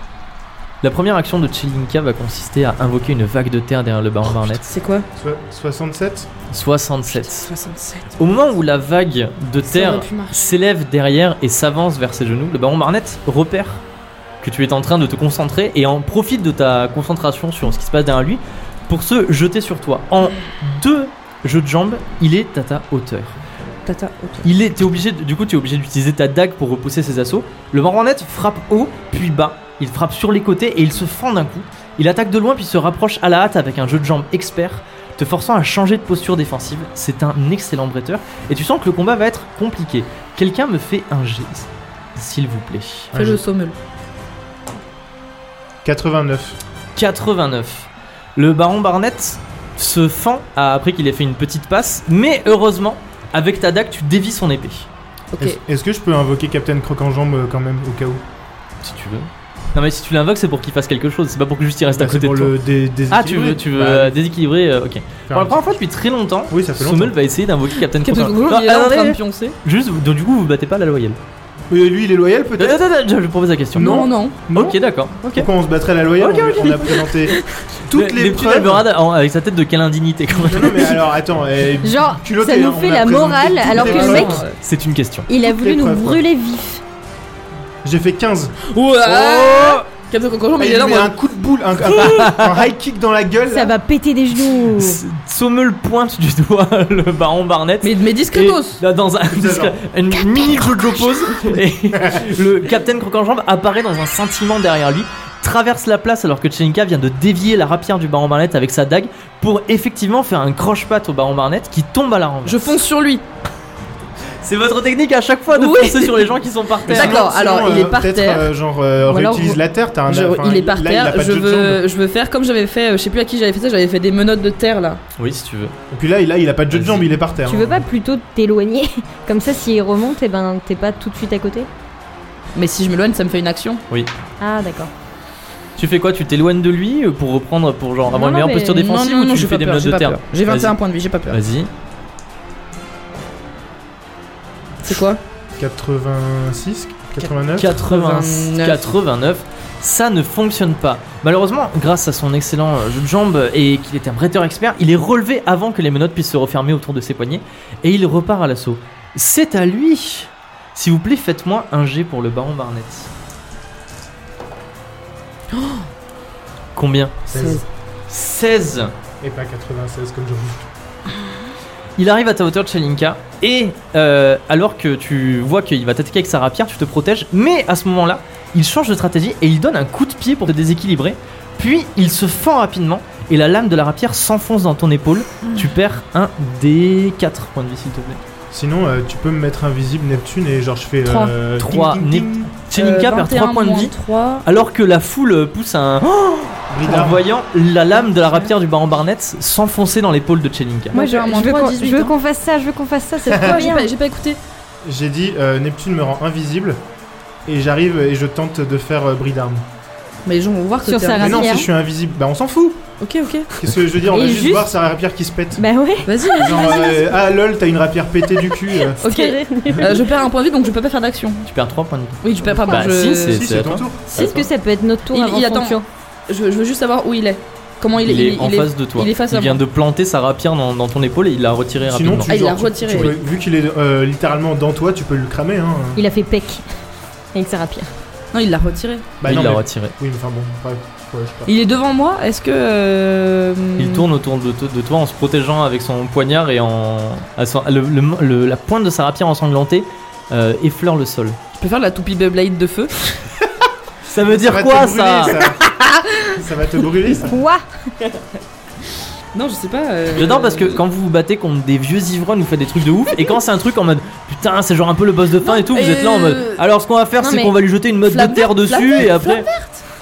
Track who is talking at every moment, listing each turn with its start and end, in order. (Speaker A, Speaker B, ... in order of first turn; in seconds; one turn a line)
Speaker A: 0.8-4.7
Speaker B: 4.2-5.1
Speaker C: 5.2-6.3
Speaker A: 6.5-7.5
Speaker B: 7.1-8.2
Speaker A: 8.2-13.8
Speaker B: 9.7-10.5
Speaker A: 14.4-23.4
Speaker B: 23.9-24.5
Speaker A: 24.4-43.1
Speaker C: 43.1-43.4
Speaker B: 43.1-43.8
Speaker C: 45.8-46.6
Speaker A: 47.0-54.9
Speaker C: 55.4-58.2
Speaker A: 58.8-62.6
Speaker C: 61.9-64.2
Speaker A: 63.1-71.2
Speaker C: 65.3-65.6
Speaker C: 66.5-67.2
Speaker B: 67.9-69.5
Speaker C: 71.7-72.8
Speaker A: 72.6-75.5
Speaker C: 73.8-74.8
Speaker B: 73.8-74.4
Speaker C: 75.3-78.9
Speaker A: 76.2-77.1
Speaker A: 77.9-81.0
Speaker C: 80.4-84.4
Speaker D: 81.8-84.5
Speaker B: 83.7-84.5
Speaker A: 84.5-85.3
Speaker D: 85.3-86.8
Speaker C: 85.4-86.2
Speaker C: 87.8-88.6
Speaker B: 88.7-91.1
Speaker A: 89.0-89.9
Speaker C: 90.6-93.7
Speaker A: 91.8-92.6
Speaker D: 93.5-95.0
Speaker A: 94.7-112.7
Speaker B: 97.8-98.8
Speaker C: 99.3-99.8
Speaker C: 102.0-102.3
Speaker B: 112.5-113.2
Speaker A: 114.4-117.2
Speaker B: 115.5-118.5
Speaker C: 116.9-121.8
Speaker D: 119.0-119.6
Speaker B: 120.1-125.0
Speaker A: 125.2-125.7
Speaker C: 125.9-127.8
Speaker A: 126.7-127.0
Speaker D: 127.5-131.7
Speaker B: 132.6-133.8
Speaker D: 134.4-134.9
Speaker A: 135.8-140.8
Speaker D: 138.1-138.9
Speaker B: 138.8-141.4
Speaker A: 141.3-141.7
Speaker B: 144.8-145.2
Speaker C: 145.6-147.8
Speaker A: 147.6-163.1
Speaker B: 147.6-149.0
Speaker B: 165.6-165.8
Speaker A: 166.8-167.2
Speaker B: 167.3-167.6
Speaker C: 167.3-167.6
Speaker A: 168.1-168.9
Speaker C: 169.2-170.7
Speaker A: 172.0-188.2
Speaker C: 188.5-192.5
Speaker B: 191.1-191.3
Speaker A: 191.6-193.9
Speaker B: 192.7-194.5
Speaker A: 194.4-201.0
Speaker C: 196.7-197.2
Speaker B: 198.1-198.4
Speaker B: 200.9-202.2
Speaker D: 200.9-203.9
Speaker B: 203.2-204.4
Speaker C: 203.3-203.7
Speaker C: 204.8-206.8
Speaker C: 207.5-209.6
Speaker B: 210.2-211.6
Speaker D: 210.8-211.7
Speaker C: 211.2-212.8
Speaker B: 213.0-213.5
Speaker C: 213.5-215.7
Speaker D: 214.1-214.7
Speaker D: 215.6-217.2
Speaker B: 216.1-216.8
Speaker C: 216.3-219.0
Speaker D: 218.9-220.1
Speaker B: 219.0-221.4
Speaker A: 221.5-224.5
Speaker B: 222.2-223.4
Speaker D: 222.5-222.8
Speaker C: 223.1-224.1
Speaker D: 224.1-225.8
Speaker B: 225.1-229.6
Speaker A: 228.0-232.3
Speaker C: 231.8-236.0
Speaker B: 232.3-233.2
Speaker D: 236.0-236.6
Speaker D: 237.3-237.9
Speaker B: 238.3-239.1
Speaker C: 239.2-241.5
Speaker A: 239.2-239.9
Speaker B: 241.5-244.1
Speaker A: 243.8-251.4
Speaker B: 251.6-253.0
Speaker A: 254.1-255.4
Speaker C: 254.2-255.7
Speaker B: 255.7-256.4
Speaker C: 256.3-257.4
Speaker D: 257.2-257.6
Speaker B: 259.3-260.8
Speaker A: 260.1-269.5
Speaker B: 265.4-266.6
Speaker D: 267.2-267.5
Speaker B: 268.1-269.8